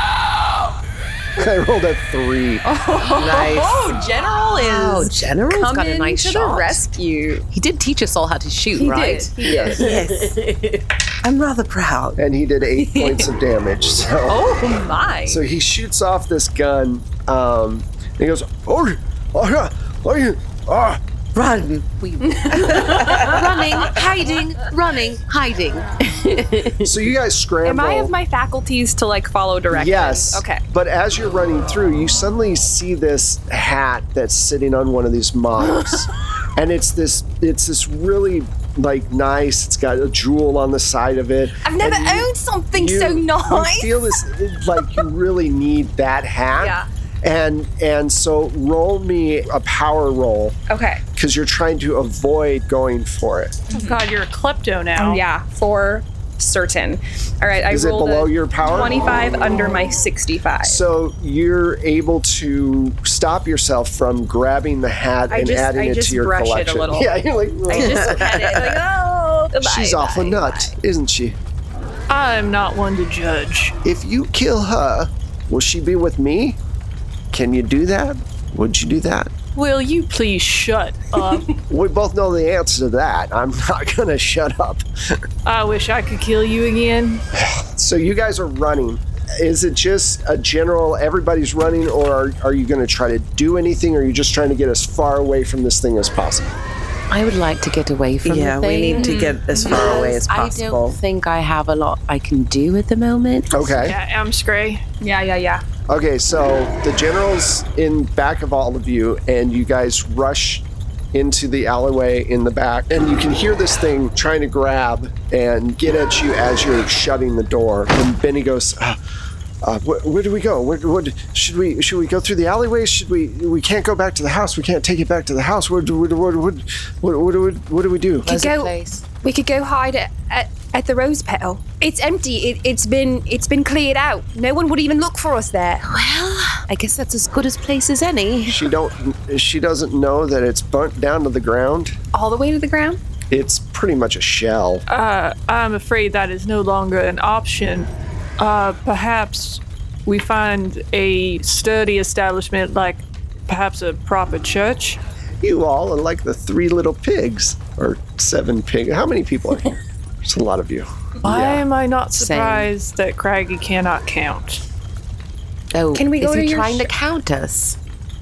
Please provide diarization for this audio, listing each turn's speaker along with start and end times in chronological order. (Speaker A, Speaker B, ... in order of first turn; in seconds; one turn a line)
Speaker A: 1.4-2.6
Speaker B: 2.6-7.5
Speaker C: 3.1-4.0
Speaker C: 4.6-5.6
Speaker D: 5.5-6.8
Speaker D: 7.5-10.0
Speaker B: 8.8-10.3
Speaker C: 9.4-12.2
Speaker A: 12.2-21.0
Speaker B: 12.8-13.3
Speaker B: 14.3-15.4
Speaker C: 21.4-23.6
Speaker D: 22.0-27.0
Speaker B: 22.2-23.3
Speaker A: 26.8-28.1
Speaker B: 27.6-30.6
Speaker A: 29.7-50.6
Speaker B: 41.6-44.1
Speaker B: 46.6-46.9
Speaker B: 50.7-51.0
Speaker A: 51.2-53.6
Speaker B: 53.7-54.0
Speaker E: 53.7-55.2
Speaker B: 55.0-60.8
Speaker A: 57.7-59.0
Speaker A: 60.6-68.2
Speaker B: 65.3-67.2
Speaker B: 67.7-70.8
Speaker C: 67.8-68.3
Speaker A: 69.6-71.4
Speaker E: 72.1-73.8
Speaker A: 73.8-76.6
Speaker A: 77.3-79.3
Speaker E: 79.5-81.6
Speaker A: 81.7-85.2
Speaker E: 85.5-87.2
Speaker A: 87.3-96.5
Speaker D: 97.1-103.7
Speaker C: 98.2-101.0
Speaker B: 98.9-99.8
Speaker A: 103.5-104.0
Speaker E: 103.8-104.8
Speaker B: 105.0-105.6
Speaker A: 105.9-119.0
Speaker A: 119.6-128.3
Speaker D: 128.2-129.0
Speaker B: 128.2-135.8
Speaker D: 135.8-138.6
Speaker A: 138.5-142.0
Speaker B: 142.1-143.0
Speaker A: 143.3-144.9
Speaker E: 144.9-155.0
Speaker A: 155.4-161.7
Speaker E: 161.2-164.6
Speaker D: 162.2-162.7
Speaker D: 165.7-167.8
Speaker B: 165.9-166.9